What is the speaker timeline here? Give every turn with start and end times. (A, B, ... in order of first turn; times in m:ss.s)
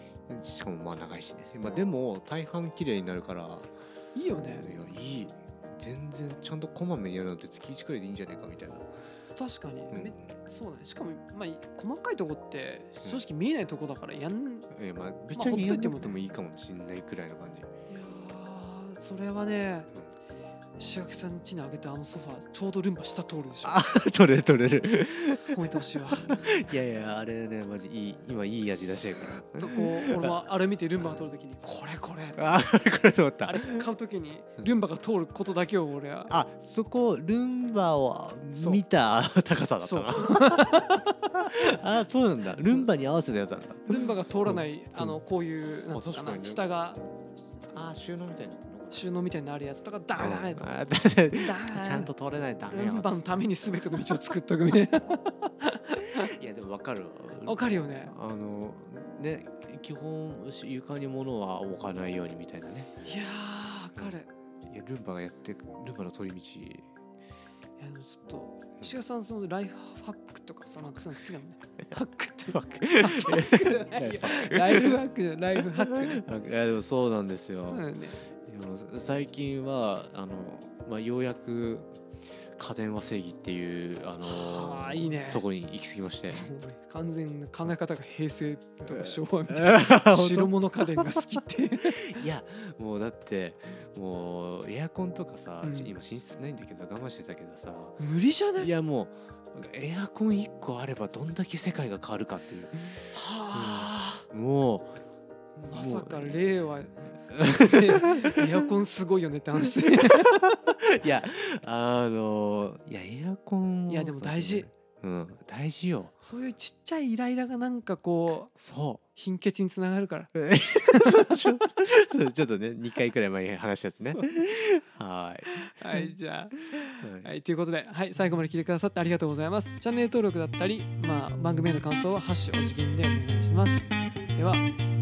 0:00.3-0:03.7 A
0:04.2-0:04.7 B
0:04.4-0:08.9 A
0:09.3-0:14.7 B
0:09.9-0:10.2 A
0:14.7-0:17.7 A
0:15.4-0:16.2 B
0:17.9-0:19.9 B
0:20.8-0:23.9 B
0:23.6-0:30.4 A
0:25.4-0:26.5 B
0:29.4-0:32.4 B
0:32.4-0:33.9 A
0:33.4-0:36.4 B
0:36.3-0:45.2 A
0:38.5-0:38.8 B
0:39.8-0:41.1 B
0:43.9-0:47.0 B
0:45.9-0:46.7 A
0:47.7-0:49.1 A
0:48.9-0:52.1 B
0:50.2-0:53.4 A
0:52.7-0:56.3 B
0:56.0-1:02.9 A
0:57.4-0:58.1 B
1:03.0-1:04.3 B
1:04.7-1:06.9 A
1:07.8-1:16.2 B
1:12.5-1:15.0 A
1:15.6-1:17.9 A
1:17.7-1:18.2 B
1:18.4-1:21.9 A
1:22.6-1:26.5 A
1:24.2-1:25.4 B
1:26.3-1:32.2 B
1:28.9-1:38.0 A
1:35.6-1:35.9 B
1:38.0-1:38.7 B
1:38.6-1:45.0 A
1:43.1-1:44.2 B
1:45.6-1:50.4 B
1:45.7-1:46.5 A
1:47.3-1:48.5 A
1:49.6-1:56.1 A
1:53.9-1:54.7 B
1:56.2-1:58.5 B
1:58.6-1:59.0 A
1:59.2-2:00.3 B
2:00.4-2:06.1 A
2:00.9-2:01.5 B
2:05.5-2:13.8 B
2:07.0-2:07.3 A
2:14.4-2:14.7 B